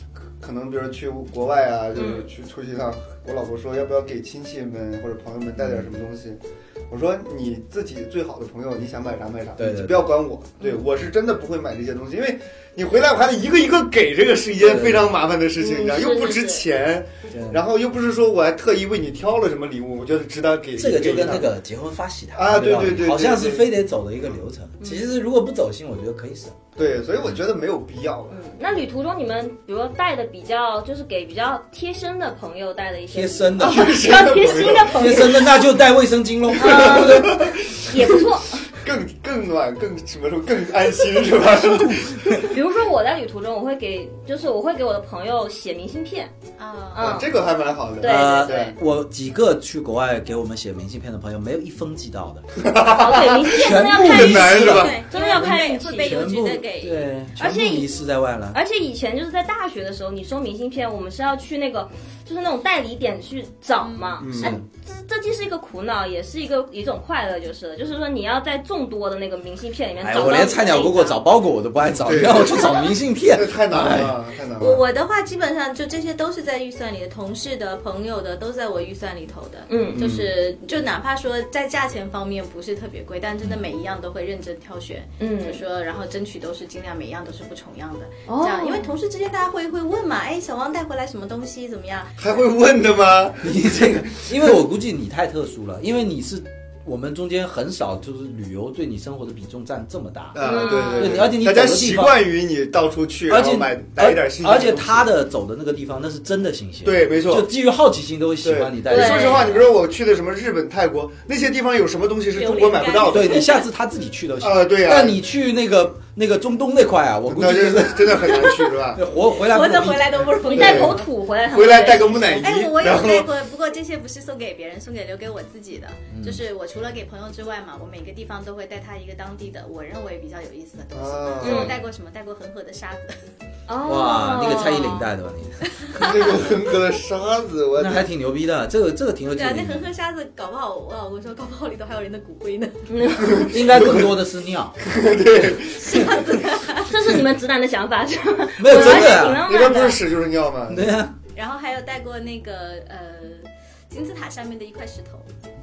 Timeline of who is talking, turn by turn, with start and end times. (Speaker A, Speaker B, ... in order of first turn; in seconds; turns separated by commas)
Speaker A: 0.4-21.5, Speaker B: 1.9-2.3, Speaker C: 9.6-10.1, Speaker C: 14.6-15.1, Speaker B: 15.6-16.6, Speaker C: 17.3-17.6, Speaker C: 20.8-26.6, Speaker A: 22.3-24.4, Speaker B: 24.8-25.1, Speaker A: 26.8-28.4, Speaker B: 28.3-35.5, Speaker C: 33.1-34.0, Speaker A: 33.6-35.6, Speaker C: 34.9-37.4, Speaker A: 36.5-42.3, Speaker B: 36.5-38.7, Speaker C: 41.2-42.5, Speaker B: 42.4-46.3, Speaker D: 46.6-47.2, Speaker B: 46.9-47.3, Speaker A: 47.0-48.8, Speaker B: 48.0-48.6, Speaker C: 48.0-52.5, Speaker A: 52.5-55.0, Speaker B: 52.8-56.1, Speaker C: 53.4-58.6, Speaker D: 54.7-57.1, Speaker B: 57.4-57.9, Speaker B: 58.5-71.2, Speaker D: 63.8-64.5, Speaker A: 64.2-64.6, Speaker C: 70.0-74.1, Speaker A: 72.0-74.8, Speaker D: 74.6-92.3, Speaker B: 79.7-80.0, Speaker A: 79.9-80.3, Speaker B: 85.2-85.6, Speaker B: 88.3-88.9, Speaker A: 92.2-94.5, Speaker C: 93.4-102.2, Speaker A: 100.3-105.1, Speaker B: 100.4-101.2, Speaker D: 100.5-101.2, Speaker C: 103.3-109.7, Speaker A: 106.8-107.5, Speaker A: 108.4-113.5, Speaker B: 108.9-109.6, Speaker D: 112.3-113.6, Speaker C: 113.1-120.1, Speaker A: 114.4-115.2, Speaker A: 117.2-119.0, Speaker D: 119.2-121.1, Speaker B: 120.4-122.4, Speaker A: 120.5-123.3, Speaker D: 122.4-133.2, Speaker C: 126.1-126.4, Speaker A: 130.9-131.8, Speaker B: 131.4-131.8, Speaker B: 133.7-135.1, Speaker C: 133.8-136.4, Speaker D: 135.8-136.3, Speaker A: 135.9-138.1, Speaker C: 137.8-139.8, Speaker D: 139.3-142.8, Speaker B: 142.9-143.5, Speaker A: 143.2-144.2, Speaker C: 143.5-144.8, Speaker A: 144.8-146.2, Speaker D: 145.8-146.9, Speaker B: 146.8-150.0, Speaker C: 148.6-149.4, Speaker A: 148.7-151.0, Speaker C: 150.7-151.1, Speaker D: 151.3-155.3